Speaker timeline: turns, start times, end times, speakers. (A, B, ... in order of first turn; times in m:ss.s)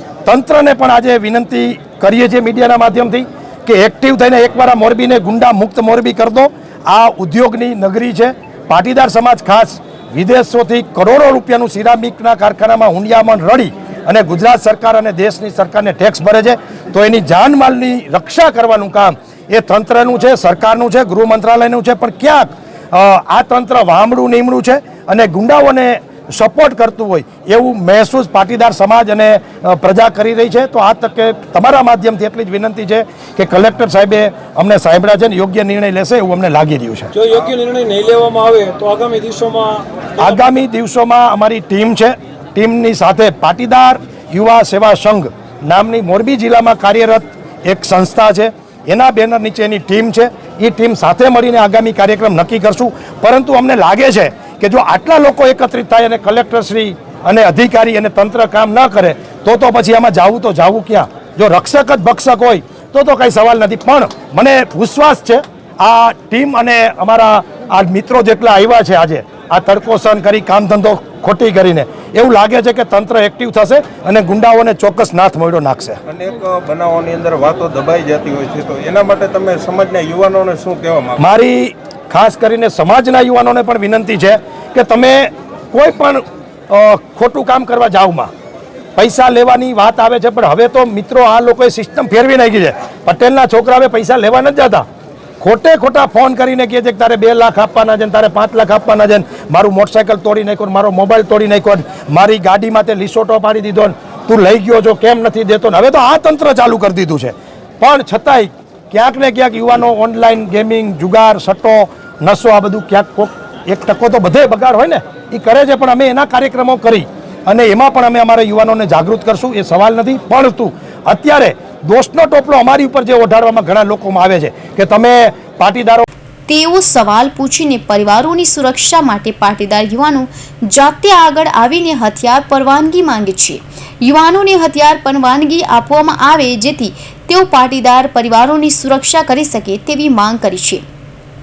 0:00.2-0:37.1 A
0:37.2-0:40.3 B
0:40.2-1:16.0 A
1:16.1-1:21.2 C
1:21.2-1:28.3 A
1:29.0-1:34.8 A
1:35.4-2:06.1 A
2:06.5-2:20.8 D